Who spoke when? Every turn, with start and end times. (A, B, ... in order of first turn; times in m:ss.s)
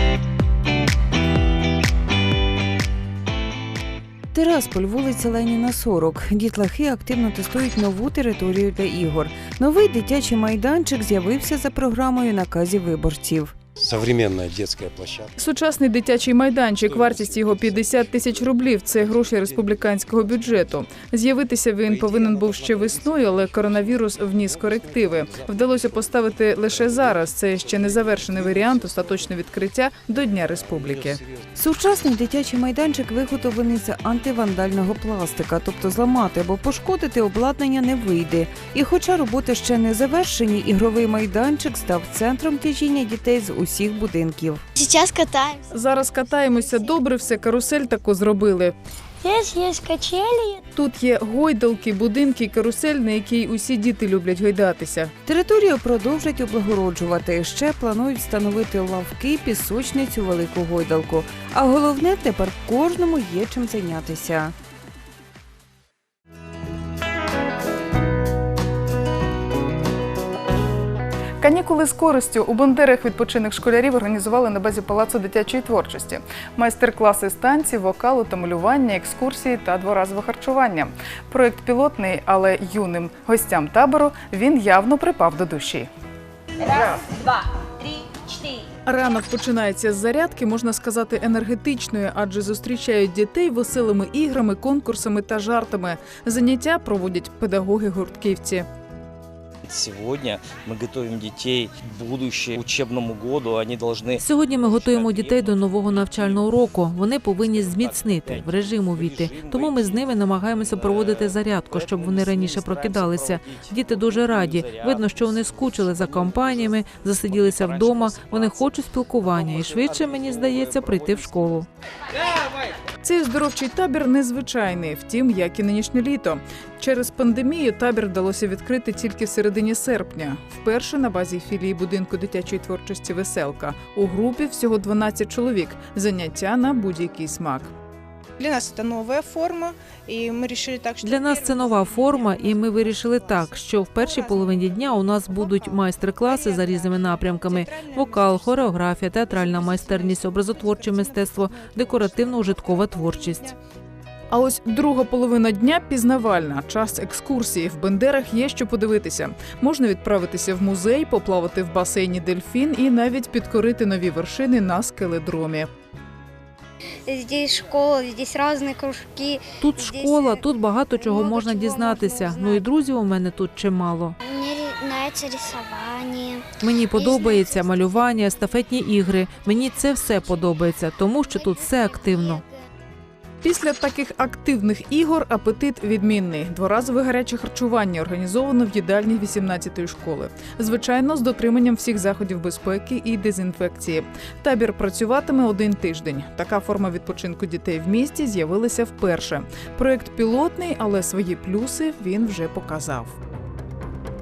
0:04.3-0:13.5 A
0:15.4-0:31.2 B
0:31.6-0:44.6 A
0:44.8-0:45.5 C
0:45.7-0:48.7 B
0:49.2-0:50.5 C
0:50.7-0:55.1 B
0:55.2-1:04.5 A
1:11.4-1:25.9 B
1:28.8-1:38.6 B
1:39.6-1:45.5 D
1:44.2-2:01.7 E
1:47.4-1:49.9 D
1:50.7-2:01.6 D
2:03.0-2:17.7 B
2:18.4-2:33.5 F
2:21.0-2:33.5 E
2:34.3-2:45.7 B
2:47.1-2:49.4 C
2:49.6-2:54.1 E
2:51.3-2:52.2 C
2:54.2-2:56.3 C
2:56.6-3:02.4 E
3:03.4-3:23.2 B